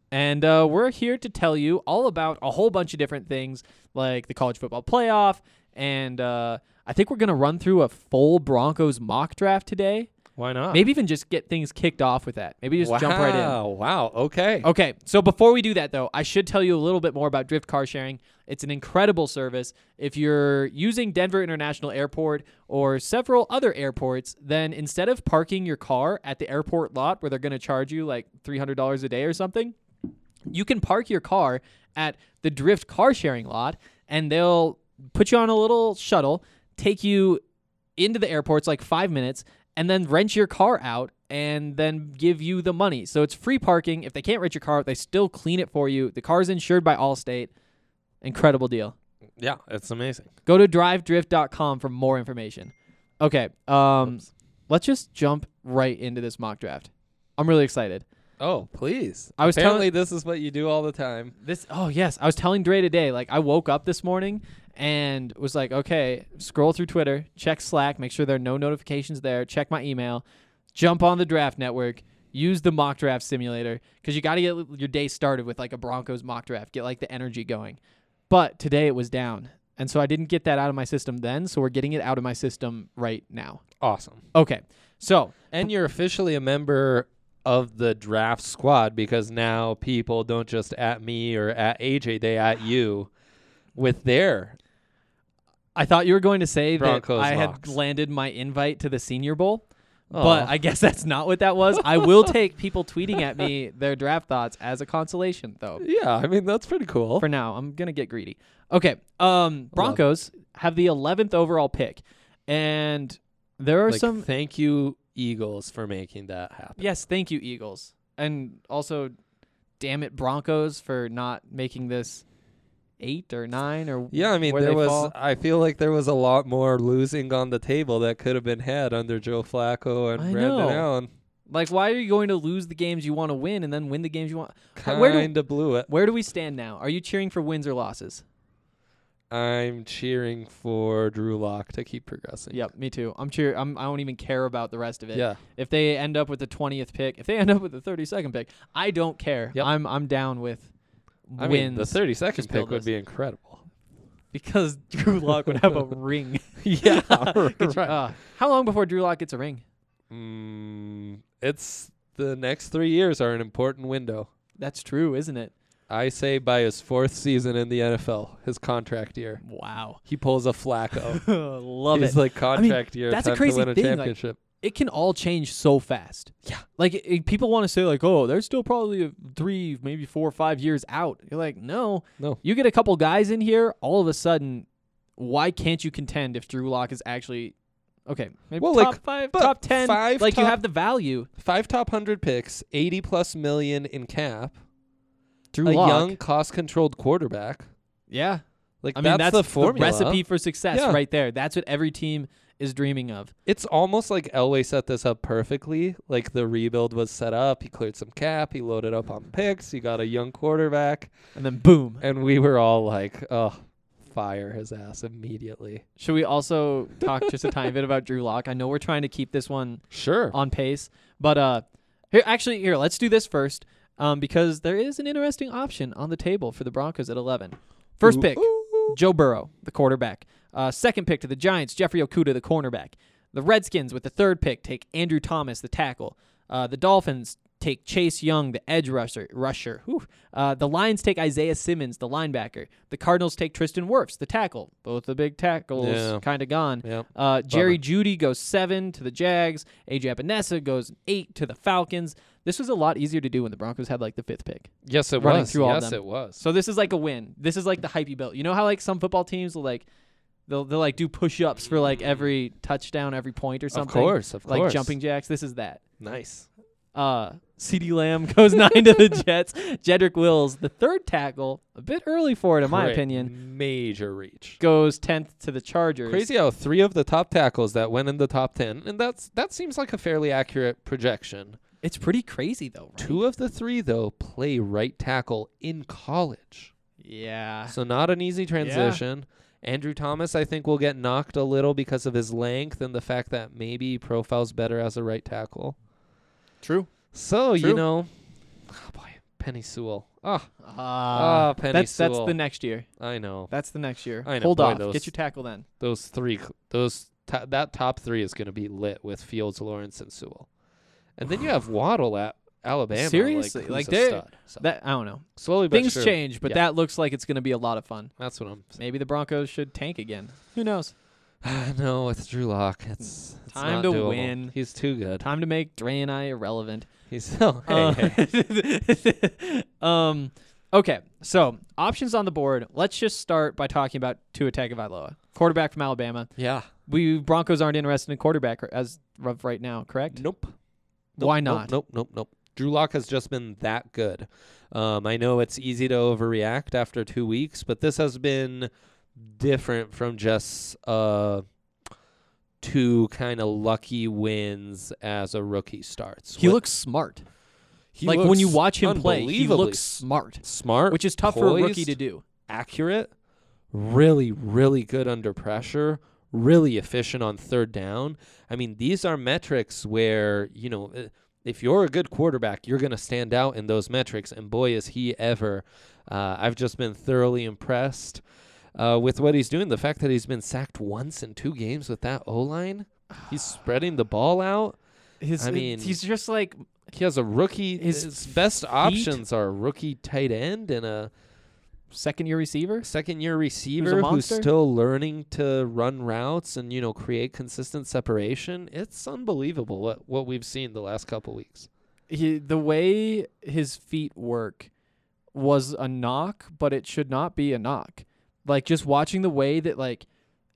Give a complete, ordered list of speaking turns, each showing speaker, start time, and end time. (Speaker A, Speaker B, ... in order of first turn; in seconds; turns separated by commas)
Speaker A: 0.1-10.1, Speaker B: 10.4-10.8, Speaker A: 10.7-13.6, Speaker B: 12.8-14.7, Speaker A: 14.6-29.8, Speaker A: 30.5-37.4, Speaker A: 38.0-47.5, Speaker A: 48.2-49.0, Speaker B: 49.4-50.3, Speaker A: 50.5-58.0, Speaker B: 58.4-61.4, Speaker A: 59.4-59.9, Speaker A: 61.4-83.6, Speaker B: 83.8-84.2, Speaker A: 84.3-85.5, Speaker B: 85.5-93.1, Speaker B: 93.8-94.6, Speaker A: 95.8-105.8, Speaker B: 96.8-97.8, Speaker B: 100.1-100.5, Speaker B: 101.8-102.3, Speaker B: 105.8-107.3, Speaker A: 107.2-114.3, Speaker B: 109.8-110.0, Speaker B: 113.9-116.8, Speaker A: 116.8-119.1, Speaker A: 119.8-122.2, Speaker A: 123.0-125.1, Speaker B: 124.1-131.1, Speaker A: 130.2-130.9, Speaker A: 131.5-135.3, Speaker B: 134.8-135.9, Speaker A: 135.9-138.2, Speaker B: 139.3-142.6, Speaker A: 142.5-150.7, Speaker B: 145.1-145.4, Speaker A: 151.3-152.9, Speaker B: 151.4-153.7, Speaker A: 154.3-159.6, Speaker B: 156.6-158.0, Speaker B: 160.1-164.3, Speaker A: 164.6-165.5, Speaker B: 165.9-169.4, Speaker A: 169.4-170.0, Speaker B: 170.1-171.2, Speaker A: 171.0-187.6, Speaker B: 171.9-174.4, Speaker A: 188.1-191.3, Speaker B: 188.6-190.6, Speaker B: 191.4-194.6, Speaker A: 195.5-196.2, Speaker B: 195.7-197.7, Speaker A: 198.1-198.4, Speaker B: 198.8-201.0, Speaker A: 198.9-203.3, Speaker B: 203.5-211.1, Speaker A: 211.3-212.0, Speaker B: 212.0-215.8, Speaker A: 216.0-259.9, Speaker B: 217.1-217.3, Speaker B: 219.9-220.4, Speaker B: 228.0-229.0, Speaker B: 245.8-246.2, Speaker B: 246.8-247.8, Speaker B: 254.9-256.4, Speaker A: 260.5-265.8, Speaker B: 261.7-262.2, Speaker B: 263.7-264.9, Speaker B: 266.0-266.5, Speaker A: 266.9-273.3, Speaker B: 272.6-274.6, Speaker A: 274.6-276.3, Speaker B: 276.1-281.6, Speaker A: 281.8-283.2, Speaker B: 283.0-286.7, Speaker A: 287.0-287.8, Speaker B: 287.7-295.8, Speaker A: 288.6-289.0, Speaker A: 296.6-296.9, Speaker B: 297.1-298.1, Speaker A: 297.6-297.8, Speaker B: 298.7-300.5, Speaker A: 300.6-302.9, Speaker B: 301.1-302.4, Speaker B: 303.0-303.5, Speaker A: 303.5-305.7, Speaker B: 304.2-305.1, Speaker B: 305.8-310.5, Speaker B: 311.2-314.6, Speaker A: 312.9-318.1, Speaker B: 315.4-316.6, Speaker B: 318.2-318.8, Speaker A: 318.8-320.9, Speaker B: 321.4-325.3, Speaker A: 323.5-324.5, Speaker A: 325.2-326.9, Speaker B: 327.1-328.2, Speaker A: 327.7-336.3, Speaker B: 336.4-336.7, Speaker A: 336.9-340.2, Speaker B: 340.1-340.6, Speaker A: 341.2-341.7, Speaker B: 341.2-351.4, Speaker B: 352.6-356.6, Speaker A: 356.4-357.2, Speaker B: 357.9-363.1, Speaker A: 358.0-362.2, Speaker B: 363.7-378.2, Speaker B: 378.8-384.8, Speaker A: 385.2-386.6, Speaker B: 385.4-386.0, Speaker B: 386.9-391.1, Speaker A: 387.8-389.2, Speaker A: 391.9-392.9, Speaker B: 392.8-401.7, Speaker A: 393.8-394.5, Speaker A: 402.1-404.7, Speaker A: 405.3-410.1